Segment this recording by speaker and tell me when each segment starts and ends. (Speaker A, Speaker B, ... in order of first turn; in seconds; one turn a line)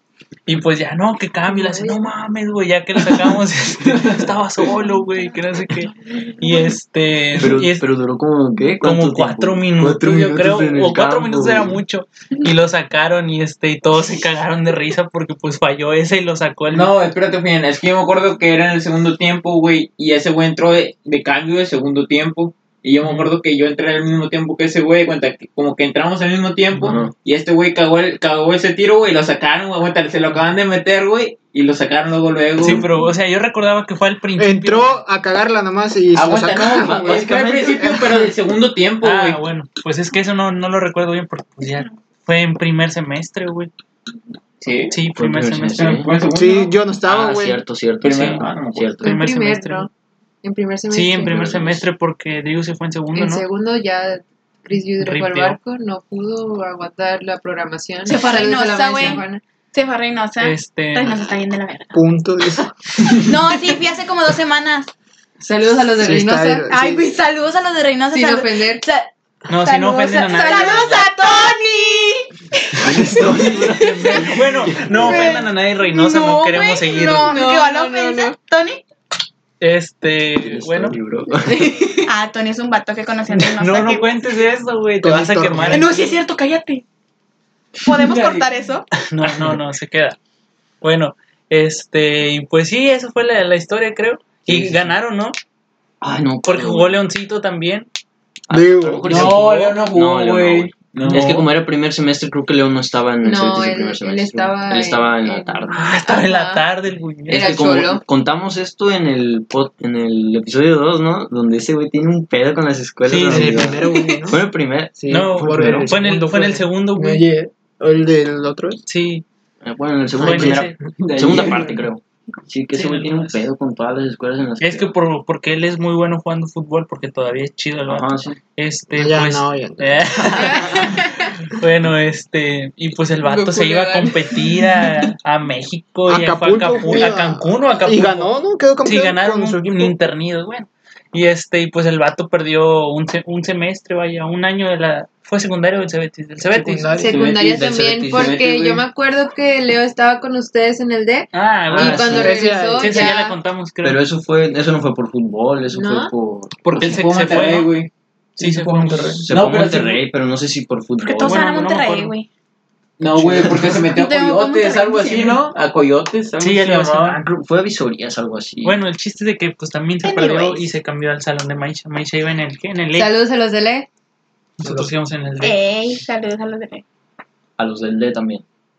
Speaker A: 0.5-7.8
Speaker B: 1.5-2.0
Speaker C: 7.3-11.8
Speaker A: 8.8-16.9
Speaker D: 16.7-32.9
Speaker A: 23.0-23.3
Speaker C: 26.8-27.1
Speaker A: 32.6-35.0
Speaker E: 34.4-38.3
Speaker D: 36.1-39.4
Speaker C: 36.7-38.1
Speaker A: 39.0-43.7
Speaker D: 44.6-45.0
Speaker A: 44.9-46.0
Speaker C: 45.1-46.1
Speaker D: 45.8-46.7
Speaker E: 46.3-47.6
Speaker C: 47.0-49.2
Speaker D: 48.0-49.0
Speaker A: 48.1-48.4
Speaker A: 49.0-49.9
Speaker B: 49.0-49.9
Speaker B: 50.4-51.4
Speaker A: 50.9-53.4
Speaker C: 51.2-51.9
Speaker B: 53.1-59.4
Speaker A: 55.0-55.6
Speaker F: 58.0-62.0
Speaker A: 60.4-61.1
Speaker E: 61.9-62.7
Speaker F: 63.1-64.9
Speaker B: 65.4-66.7
Speaker E: 66.0-67.0
Speaker F: 66.7-73.0
Speaker B: 68.1-68.8
Speaker A: 69.5-70.9
Speaker B: 70.1-71.2
Speaker C: 72.8-75.3
Speaker A: 73.1-77.4
Speaker F: 75.0-78.8
Speaker B: 75.1-75.4
Speaker B: 77.3-78.3
Speaker A: 79.6-81.0
Speaker C: 80.3-81.8
Speaker B: 81.4-82.1
Speaker F: 82.0-84.1
Speaker A: 83.3-85.9
Speaker E: 85.0-86.1
Speaker F: 85.7-86.8
Speaker F: 87.8-88.9
Speaker D: 87.8-88.5
Speaker A: 88.9-90.2
Speaker A: 90.8-95.3
Speaker C: 94.5-94.9
Speaker C: 96.0-97.0
Speaker A: 96.4-97.9
Speaker C: 98.5-105.8
Speaker E: 98.5-99.4
Speaker D: 99.0-101.4
Speaker A: 101.0-101.5
Speaker B: 103.2-106.6
Speaker A: 105.7-107.6
Speaker B: 107.3-108.0
Speaker C: 107.3-115.9
Speaker A: 113.0-113.8
Speaker E: 113.2-114.4
Speaker B: 113.8-114.2
Speaker E: 115.0-118.8
Speaker A: 115.1-117.2
Speaker A: 118.9-119.2
Speaker C: 119.6-124.9
Speaker A: 120.2-120.8
Speaker E: 120.2-120.7
Speaker D: 120.9-121.8
Speaker A: 122.7-123.4
Speaker A: 124.6-138.3
Speaker C: 127.9-128.4
Speaker E: 128.9-130.9
Speaker B: 130.4-131.1
Speaker B: 133.2-134.9
Speaker E: 136.1-140.0
Speaker A: 138.8-146.9
Speaker E: 146.5-147.2
Speaker B: 146.9-153.4
Speaker D: 147.0-148.8
Speaker C: 147.4-148.4
Speaker A: 151.3-154.0
Speaker C: 151.8-152.2
Speaker E: 152.0-153.2
Speaker C: 153.8-156.6
Speaker B: 155.7-156.1
Speaker A: 156.6-157.7
Speaker D: 156.7-157.9
Speaker A: 158.4-159.2
Speaker E: 158.4-159.2
Speaker D: 158.4-160.0
Speaker C: 159.3-161.7
Speaker F: 161.0-162.3
Speaker A: 161.2-162.1
Speaker D: 163.0-167.2
Speaker C: 163.1-163.9
Speaker F: 163.9-165.4
Speaker A: 166.4-167.2
Speaker C: 167.0-168.8
Speaker A: 168.6-173.1
Speaker F: 170.0-170.6
Speaker B: 172.9-173.9
Speaker A: 174.6-175.6
Speaker E: 174.6-174.9
Speaker F: 175.4-176.8
Speaker C: 177.6-178.4